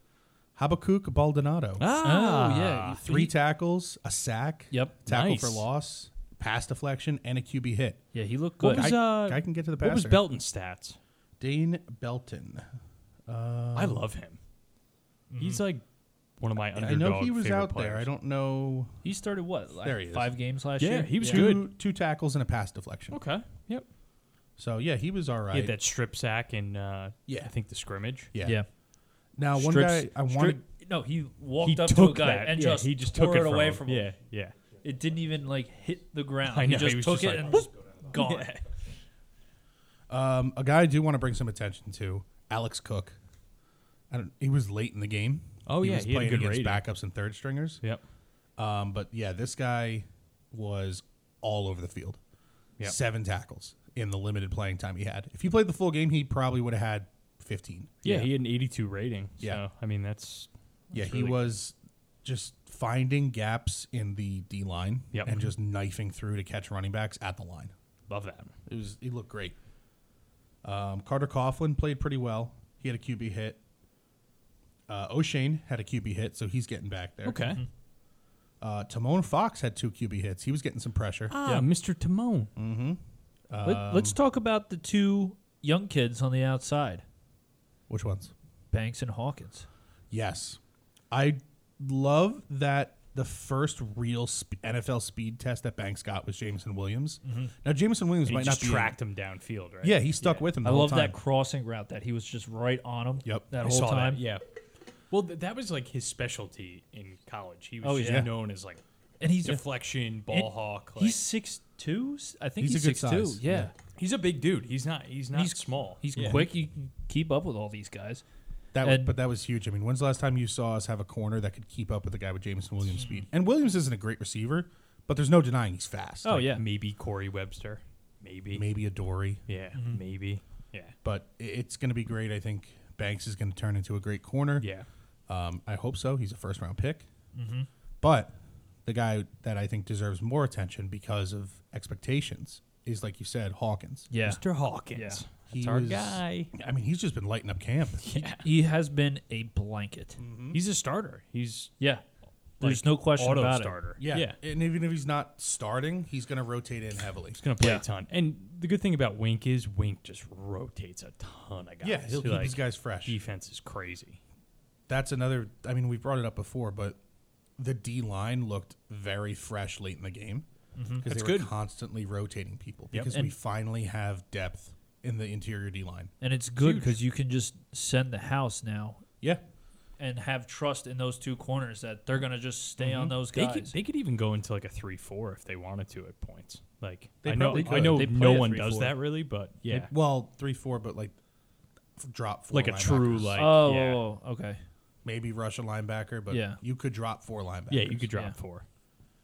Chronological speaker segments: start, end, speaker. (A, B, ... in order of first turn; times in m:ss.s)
0:00.6-0:01.9 A
0:01.8-0:03.2 B
0:02.0-0:03.3 C
0:02.9-0:08.0 A
0:05.0-0:05.6 B
0:08.1-0:08.9 C
0:08.6-0:11.0 B
0:08.6-0:10.2 A
0:11.4-0:12.7 A
0:13.3-0:14.0 A
0:13.7-0:14.4 B
0:15.3-0:15.6 C
0:15.4-0:15.8 B
0:16.4-0:18.1 B
0:16.7-0:19.0 A
0:19.0-0:21.5 C
0:19.8-0:20.3 A
0:20.8-0:21.7 B
0:21.2-0:23.2 A
0:23.1-0:23.8 B
0:24.6-0:25.7 A
0:25.5-0:28.3 B
0:28.3-0:28.6 A
0:29.4-0:30.6 A
0:29.5-0:34.1 C
0:31.6-0:34.6 B
0:34.8-0:38.6 C
0:36.4-0:38.6 B
0:40.1-0:43.2 A
0:44.1-0:47.8 A
0:45.6-0:46.8 B
0:48.6-0:52.2 A
0:52.8-0:58.2 A
0:58.0-1:01.5 B
1:00.9-1:07.7 A
1:05.1-1:05.5 B
1:08.1-1:08.5 B
1:08.6-1:09.5 A
1:10.6-1:13.6 A
1:14.9-1:17.5 A
1:17.2-1:17.6 B
1:18.6-1:21.3 A
1:21.3-1:22.5 B
1:22.6-1:24.2 A
1:23.6-1:27.0 C
1:27.9-1:28.3 A
1:28.7-1:29.7 C
1:30.1-1:30.6 A
1:31.1-1:39.0 A
1:37.2-1:37.5 C
1:38.2-1:40.5 B
1:39.8-1:41.2 A
1:40.6-1:44.2 C
1:43.6-1:44.4 B
1:45.1-1:48.8 B
1:47.8-1:48.3 C
1:48.0-1:48.3 A
1:49.2-1:49.6 C
1:49.4-1:51.2 B
1:50.3-1:53.7 C
1:52.6-1:53.7 A
1:53.9-1:56.5 B
1:55.3-1:58.2 C
1:56.2-1:56.4 A
1:58.7-2:06.4 A
1:58.8-1:59.2 C
2:03.0-2:03.2 C
2:06.2-2:06.6 C
2:06.4-2:08.6 B
2:08.5-2:09.4 A
2:09.5-2:10.9 B
2:09.7-2:10.0 C
2:11.0-2:14.7 A
2:14.6-2:14.9 B
2:15.3-2:17.1 A
2:17.3-2:17.7 C
2:18.0-2:24.1 A
2:24.1-2:24.4 C
2:24.2-2:26.5 B
2:24.9-2:25.2 C
2:25.5-2:28.0 A
2:28.0-2:28.4 B
2:28.2-2:30.2 C
2:30.2-2:30.6 A
2:30.5-2:31.7 B
2:32.6-2:33.8 C
2:32.6-2:34.4 B
2:34.0-2:37.4 A
2:37.3-2:44.2 B
2:37.6-2:37.8 C
2:41.8-2:43.2 A
2:44.9-2:47.0 A
2:47.6-2:50.4 A
2:50.8-2:51.0 C
2:51.0-2:56.1 A
2:51.0-2:51.5 B
2:52.9-2:53.2 B
2:56.2-2:59.0 C
2:56.6-2:57.0 B
3:00.0-3:03.7 C
3:02.8-3:03.1 A
3:03.3-3:09.9 B
3:07.2-3:08.3 A
3:07.4-3:09.0 C
3:09.9-3:11.2 A
3:12.0-3:13.4 A
3:12.5-3:14.0 B
3:13.4-3:14.6 C
3:15.0-3:18.1 A
3:16.3-3:16.6 C
3:17.7-3:18.6 B